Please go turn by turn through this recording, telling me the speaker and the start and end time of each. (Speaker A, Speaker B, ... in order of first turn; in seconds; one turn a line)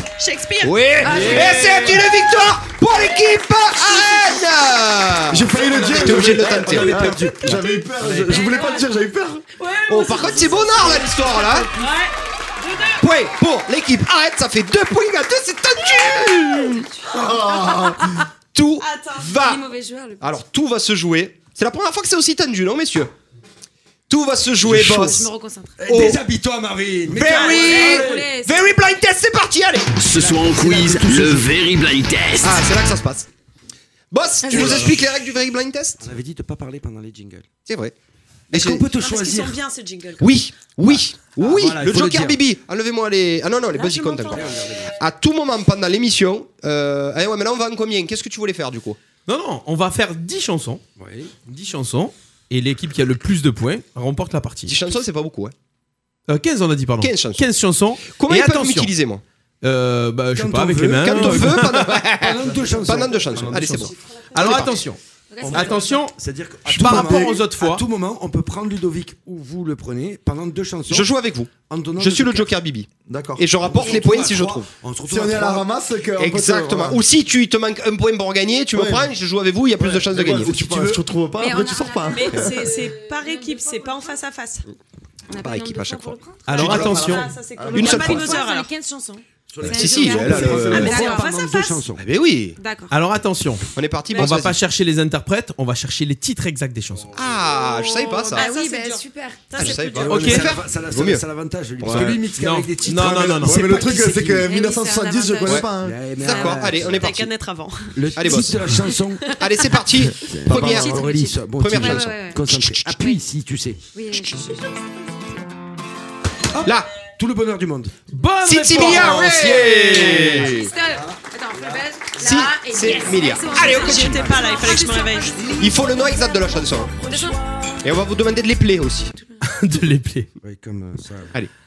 Speaker A: 0.2-1.3
Speaker B: 0.6-7.3
Speaker C: 1.0-1.9
Speaker D: 1.1-1.7
Speaker E: 5.3-9.4
Speaker F: 5.5-8.4
Speaker C: 8.3-8.9
Speaker A: 8.3-8.8
Speaker A: 9.6-13.0
Speaker B: 9.9-11.7
Speaker C: 10.0-11.6
Speaker B: 13.0-16.9
Speaker E: 17.1-18.2
Speaker C: 17.5-18.2
Speaker B: 18.5-19.6
Speaker A: 18.8-19.3
Speaker C: 19.4-20.2
Speaker B: 20.2-23.1
Speaker B: 24.1-25.3
Speaker F: 24.6-25.2
Speaker C: 25.0-25.8
Speaker F: 25.8-28.3
Speaker B: 25.9-26.2
Speaker B: 27.1-30.0
Speaker A: 27.2-28.2
Speaker C: 27.4-28.6
Speaker G: 29.9-32.7
Speaker F: 30.1-31.5
Speaker B: 32.4-33.3
Speaker B: 34.1-36.1
Speaker F: 34.5-35.0
Speaker F: 36.0-37.5
Speaker B: 37.6-37.9
Speaker B: 38.5-38.9
Speaker F: 38.5-39.6
Speaker A: 39.0-40.4
Speaker B: 40.2-49.0
Speaker F: 40.8-42.4
Speaker A: 43.7-44.8
Speaker F: 44.3-44.9
Speaker D: 49.2-50.8
Speaker F: 51.0-51.3
Speaker D: 51.4-54.7
Speaker B: 54.6-55.5
Speaker D: 56.3-58.9
Speaker B: 57.0-57.5
Speaker B: 58.0-59.2
Speaker D: 59.6-62.0
Speaker F: 60.3-63.9
Speaker B: 61.0-64.8
Speaker E: 62.5-63.1
Speaker D: 63.5-67.8
Speaker C: 65.3-66.0
Speaker F: 65.4-72.5
Speaker E: 66.8-67.4
Speaker B: 70.9-74.7
Speaker E: 73.0-73.7
Speaker F: 73.6-75.7
Speaker E: 75.1-77.0
Speaker B: 76.2-80.7
Speaker E: 78.7-79.1
Speaker E: 79.8-82.6
Speaker F: 80.1-81.0
Speaker C: 81.3-84.2
Speaker A: 82.1-84.7
Speaker C: 85.3-86.8
Speaker B: 85.4-87.2
Speaker D: 86.5-87.3
Speaker E: 86.6-88.1
Speaker A: 86.9-88.7
Speaker C: 87.7-91.3
Speaker B: 87.7-88.4
Speaker F: 89.5-92.0
Speaker B: 89.6-91.0
Speaker E: 90.2-90.6
Speaker A: 90.7-91.8
Speaker B: 92.0-92.6
Speaker C: 92.6-92.9
Speaker D: 92.9-97.2
Speaker B: 93.8-94.6
Speaker F: 96.9-97.4
Speaker B: 97.1-98.5
Speaker C: 97.5-99.7
Speaker A: 98.3-100.5
Speaker B: 99.5-101.2
Speaker F: 100.0-104.5
Speaker D: 100.1-100.5
Speaker E: 101.8-102.2
Speaker D: 101.9-103.8
Speaker E: 103.4-106.0
Speaker C: 103.7-105.7
Speaker F: 105.7-107.1
Speaker B: 106.2-107.3
Speaker C: 106.3-106.6
Speaker A: 106.8-108.3
Speaker F: 107.9-109.4
Speaker B: 108.1-108.8
Speaker C: 109.3-109.8
Speaker B: 109.3-113.1
Speaker F: 110.2-113.8
Speaker E: 110.5-110.9
Speaker C: 110.5-112.4
Speaker C: 113.9-114.7
Speaker F: 116.5-118.0
Speaker D: 118.1-120.5
Speaker B: 118.4-120.7
Speaker F: 118.8-119.3
Speaker F: 120.1-121.9
Speaker C: 120.2-127.4
Speaker B: 122.2-124.8
Speaker A: 122.8-125.6
Speaker B: 125.6-127.0
Speaker A: 127.0-127.8
Speaker B: 127.8-129.1
Speaker D: 129.4-130.3
Speaker F: 130.4-131.3